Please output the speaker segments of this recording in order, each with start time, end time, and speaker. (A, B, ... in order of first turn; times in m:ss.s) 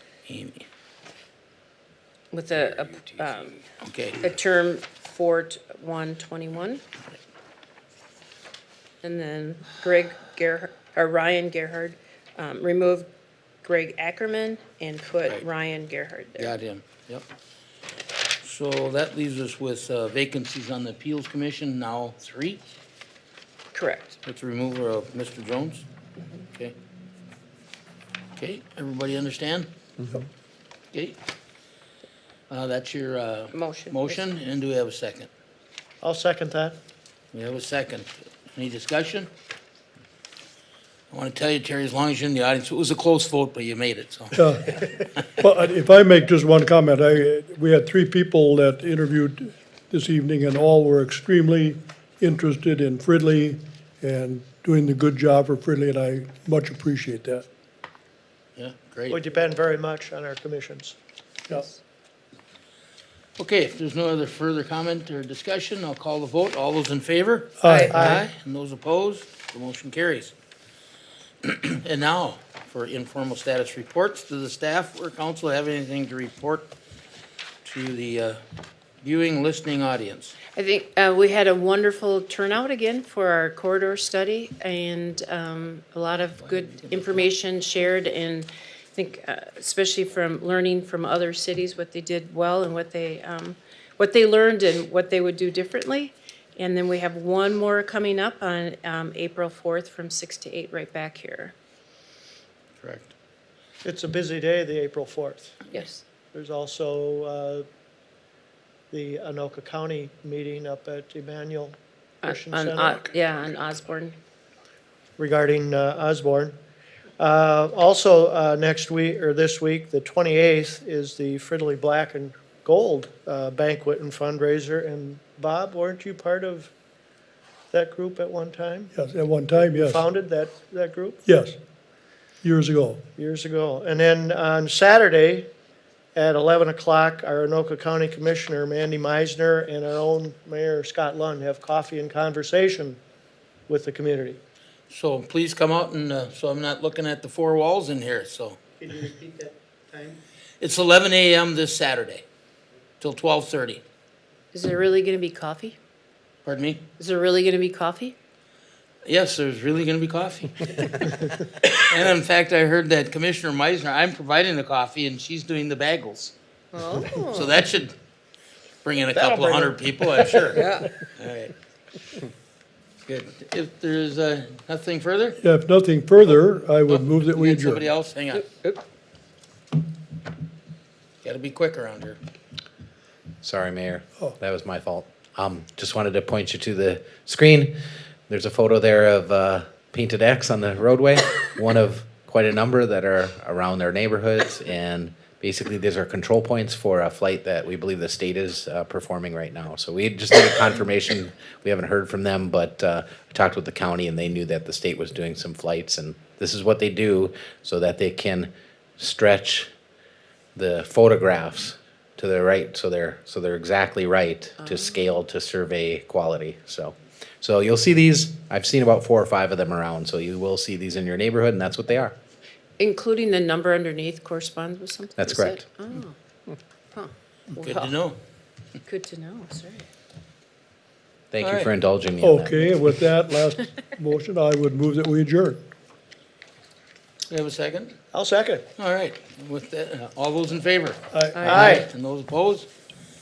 0:00.3-0:00.6 A
0:02.3-0:03.6 B
0:03.8-0:04.3 A
0:04.2-0:06.8 B
0:09.0-0:13.1 B
0:13.6-0:16.5 B
0:16.4-0:17.2 A
0:18.4-0:22.6 A
0:23.7-0:24.2 B
0:24.2-0:25.9 A
0:28.4-0:29.7 A
0:30.9-0:31.2 A
0:32.5-0:35.3 A
0:33.5-0:34.2 B
0:36.0-0:36.8 C
0:37.3-0:39.3 A
0:41.1-0:44.9 A
0:44.3-0:57.5 D
0:58.6-0:59.2 A
0:59.1-1:01.0 C
1:01.5-1:01.8 B
1:03.4-1:10.3 A
1:07.6-1:08.2 D
1:07.6-1:07.9 B
1:07.9-1:08.2 C
1:11.4-1:16.7 A
1:17.6-1:18.4 A
1:19.0-1:20.4 A
1:20.5-1:41.5 B
1:42.8-1:43.1 A
1:43.8-1:45.6 C
1:45.7-1:46.0 B
1:46.3-1:47.6 C
1:48.9-1:53.0 C
1:52.2-1:54.2 B
1:55.2-1:56.6 C
1:57.2-2:06.7 C
2:07.7-2:08.9 C
2:08.9-2:10.0 D
2:09.5-2:11.2 C
2:11.2-2:11.6 D
2:12.4-2:13.1 D
2:13.1-2:15.5 C
2:16.2-2:23.0 C
2:23.7-2:24.4 C
2:24.9-2:28.6 A
2:28.8-2:30.2 C
2:30.6-2:32.2 A
2:33.0-2:33.8 A
2:34.5-2:35.8 B
2:36.4-2:36.8 A
2:37.0-2:38.2 B
2:39.0-2:46.3 A
2:46.7-2:47.6 B
2:47.3-2:47.9 A
2:48.8-2:51.5 A
2:49.2-2:49.8 C
2:50.5-2:50.9 B
2:53.1-2:55.4 A
2:55.4-2:57.8 D
2:56.9-2:58.5 A
2:58.5-2:58.8 B
3:01.2-3:02.2 A
3:03.4-3:07.7 E
3:08.3-3:29.7 E
3:30.6-3:42.2 E
3:34.6-3:35.1 B
3:42.8-3:46.2 B
3:45.2-3:45.6 E
3:46.9-3:48.0 B
3:47.6-3:48.2 A
3:48.8-3:49.9 B
3:51.3-3:52.7 E
3:51.4-3:51.7 A
3:52.2-3:55.7 D
3:57.3-3:58.0 A
3:58.1-3:58.7 C
3:58.8-4:02.7 A
4:01.1-4:01.6 D
4:01.3-4:01.9 B
4:01.4-4:01.9 C